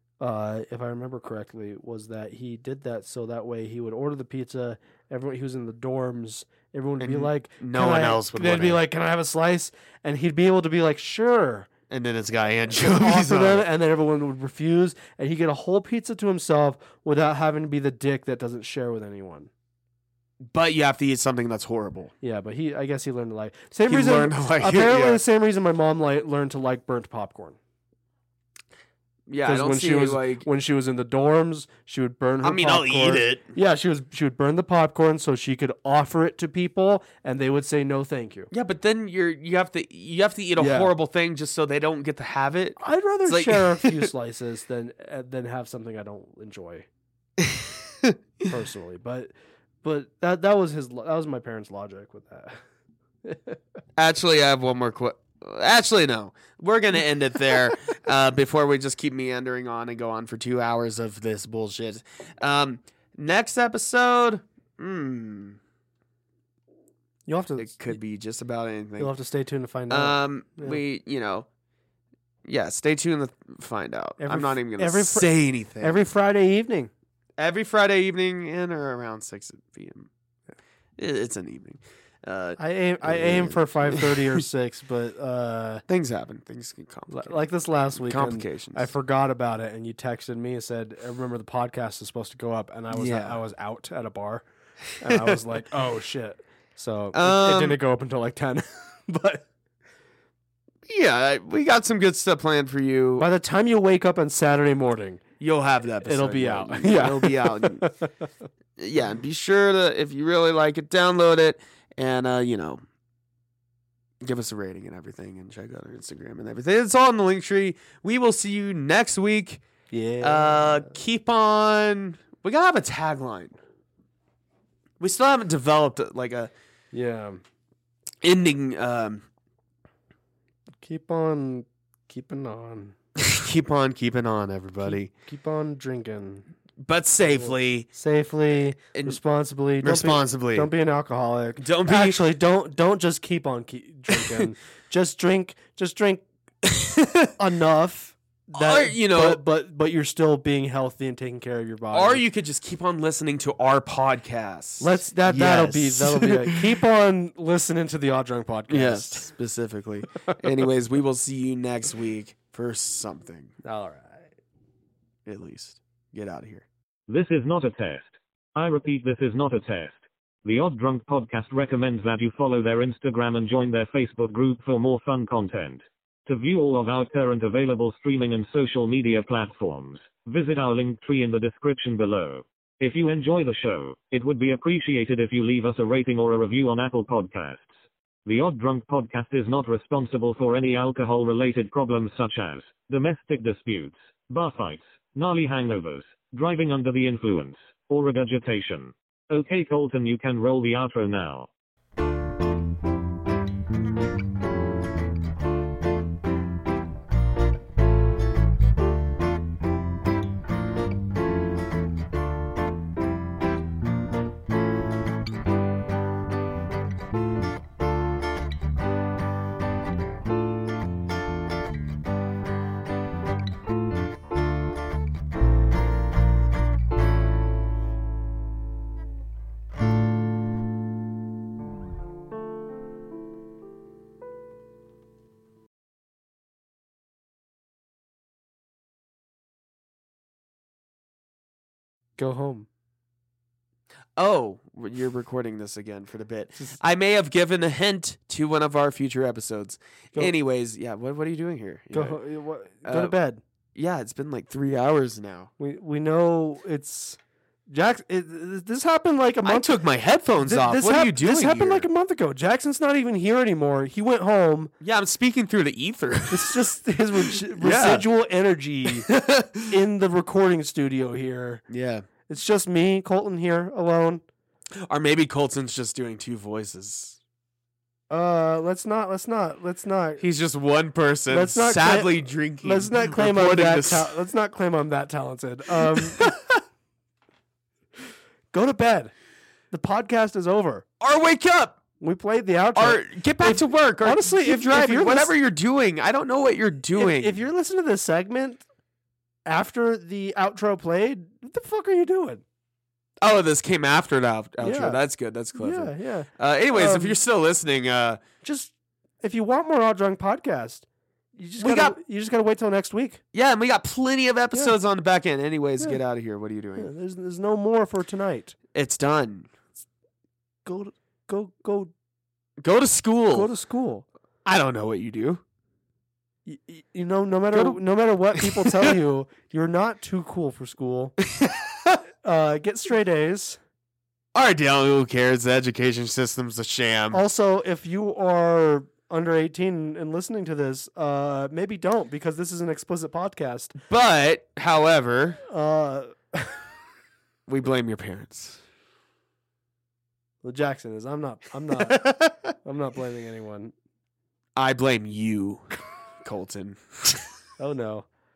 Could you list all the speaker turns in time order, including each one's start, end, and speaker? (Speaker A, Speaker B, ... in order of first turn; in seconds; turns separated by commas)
Speaker A: 0.2-11.7, Speaker B: 7.0-8.8, Speaker B: 11.9-13.7, Speaker A: 12.8-19.5, Speaker B: 20.4-22.1, Speaker A: 22.2-27.6, Speaker B: 23.9-25.2, Speaker B: 29.3-30.5, Speaker A: 29.4-38.5, Speaker B: 32.4-33.5, Speaker B: 38.5-44.1, Speaker A: 40.6-40.9, Speaker A: 42.8-46.9, Speaker B: 47.4-48.1, Speaker A: 48.5-52.6, Speaker A: 53.2-53.6, Speaker B: 54.0-65.6, Speaker A: 67.3-68.0, Speaker B: 67.6-69.1, Speaker A: 69.0-70.8, Speaker B: 69.9-71.5, Speaker B: 72.5-76.0, Speaker A: 74.2-76.9, Speaker B: 77.4-80.1, Speaker B: 81.0-84.4, Speaker A: 82.6-85.8, Speaker B: 85.9-87.4, Speaker A: 87.1-94.5, Speaker B: 88.0-88.9, Speaker B: 92.9-93.4, Speaker A: 95.0-99.5, Speaker B: 95.0-95.4, Speaker B: 97.1-97.8, Speaker B: 100.9-103.3, Speaker A: 103.2-105.2, Speaker B: 105.4-107.9, Speaker A: 106.0-108.2, Speaker B: 108.8-112.8, Speaker B: 114.2-119.6, Speaker A: 119.9-121.0, Speaker B: 120.2-123.6, Speaker B: 125.0-126.5, Speaker A: 126.9-127.4, Speaker B: 128.2-129.3, Speaker A: 130.8-132.9, Speaker B: 133.2-135.1, Speaker A: 134.8-136.5, Speaker B: 136.8-137.9, Speaker A: 137.3-146.2, Speaker B: 138.9-139.2, Speaker B: 139.8-140.7, Speaker B: 141.6-142.3, Speaker B: 144.1-144.4, Speaker B: 146.6-147.3, Speaker A: 147.4-152.2, Speaker B: 148.6-149.4, Speaker B: 151.9-156.7, Speaker A: 154.8-159.3, Speaker B: 158.7-163.5, Speaker A: 163.6-164.3, Speaker B: 165.3-166.7, Speaker C: 167.1-187.7, Speaker C: 188.3-201.5, Speaker A: 242.2-242.7, Speaker B: 244.2-252.2, Speaker A: 251.9-253.4, Speaker B: 252.8-253.1, Speaker B: 253.7-255.5, Speaker A: 255.6-259.8, Speaker B: 259.4-261.9, Speaker A: 260.4-264.7, Speaker B: 264.8-268.1, Speaker A: 266.3-271.6, Speaker B: 269.1-269.7, Speaker B: 271.7-272.1, Speaker A: 272.3-274.2, Speaker B: 274.9-277.2, Speaker A: 278.1-280.2, Speaker B: 280.2-284.1, Speaker A: 281.3-286.3, Speaker B: 285.9-286.5, Speaker A: 288.5-289.1, Speaker A: 289.7-290.9, Speaker B: 291.0-291.8, Speaker A: 292.0-295.3, Speaker B: 292.8-297.4, Speaker A: 297.0-298.6, Speaker A: 299.4-302.4, Speaker B: 303.2-308.2, Speaker A: 304.6-305.0, Speaker A: 305.6-307.2, Speaker A: 308.4-310.9, Speaker A: 311.4-313.2, Speaker B: 311.6-312.0, Speaker B: 313.3-316.9, Speaker A: 316.8-318.6, Speaker B: 318.7-319.5, Speaker A: 320.6-321.9, Speaker B: 322.6-323.5, Speaker A: 323.3-324.1, Speaker B: 324.4-325.4, Speaker A: 326.5-331.1, Speaker B: 327.5-327.8, Speaker B: 328.3-328.9, Speaker B: 331.2-332.0, Speaker A: 332.2-333.6, Speaker B: 334.4-337.2, Speaker A: 337.1-343.8, Speaker B: 343.9-345.4, Speaker A: 345.5-346.6, Speaker B: 347.5-348.6, Speaker A: 350.4-353.7, Speaker B: 351.9-352.5, Speaker B: 354.6-355.7, Speaker B: 356.2-357.3, Speaker A: 357.6-358.1